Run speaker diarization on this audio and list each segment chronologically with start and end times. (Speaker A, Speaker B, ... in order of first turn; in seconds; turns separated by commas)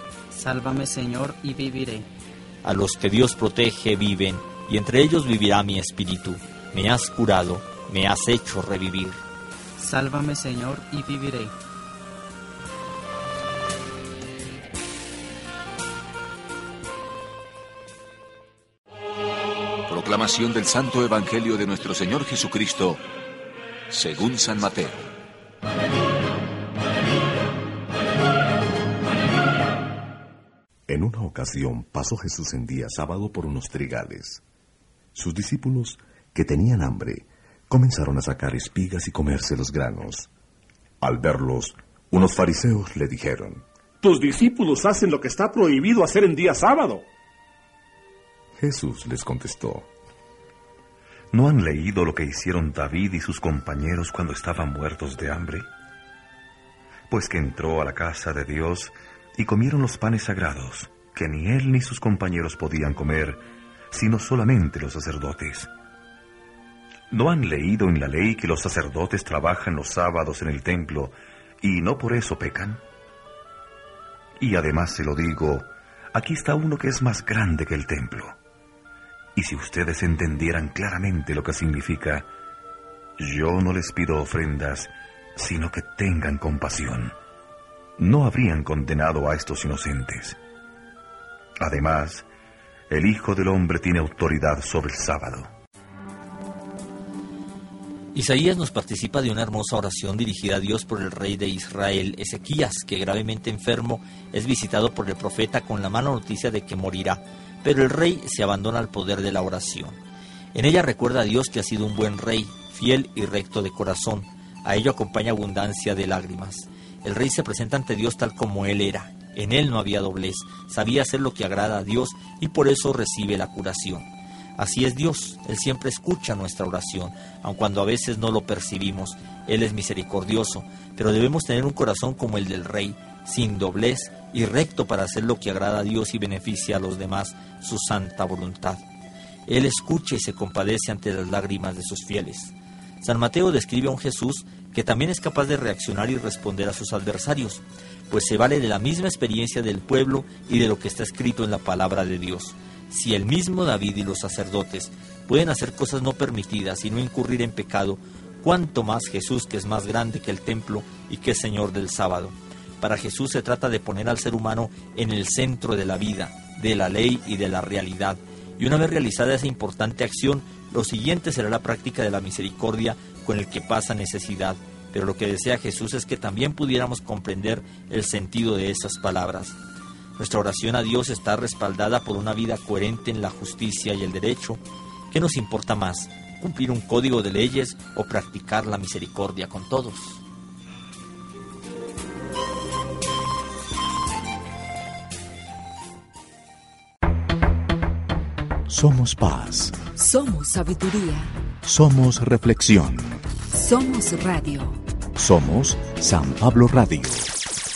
Speaker A: 0.3-2.1, Speaker B: 2.6-9.2, Speaker A: 9.8-11.5, Speaker C: 19.9-23.0, Speaker C: 23.9-25.1, Speaker D: 30.9-34.4, Speaker D: 35.1-40.3, Speaker D: 41.0-43.6, Speaker E: 44.0-47.0, Speaker D: 48.6-49.9, Speaker F: 51.3-55.6, Speaker F: 57.1-65.7, Speaker F: 67.1-72.8, Speaker F: 74.4-78.4, Speaker F: 79.4-82.3, Speaker F: 83.2-87.2, Speaker F: 88.0-90.4, Speaker F: 91.6-92.3, Speaker F: 92.9-95.5, Speaker B: 98.1-110.0, Speaker B: 110.5-138.8, Speaker B: 139.5-179.6, Speaker B: 180.2-190.2, Speaker D: 198.7-199.8, Speaker G: 199.9-201.3, Speaker D: 201.6-203.2, Speaker G: 203.5-204.8, Speaker D: 205.2-207.3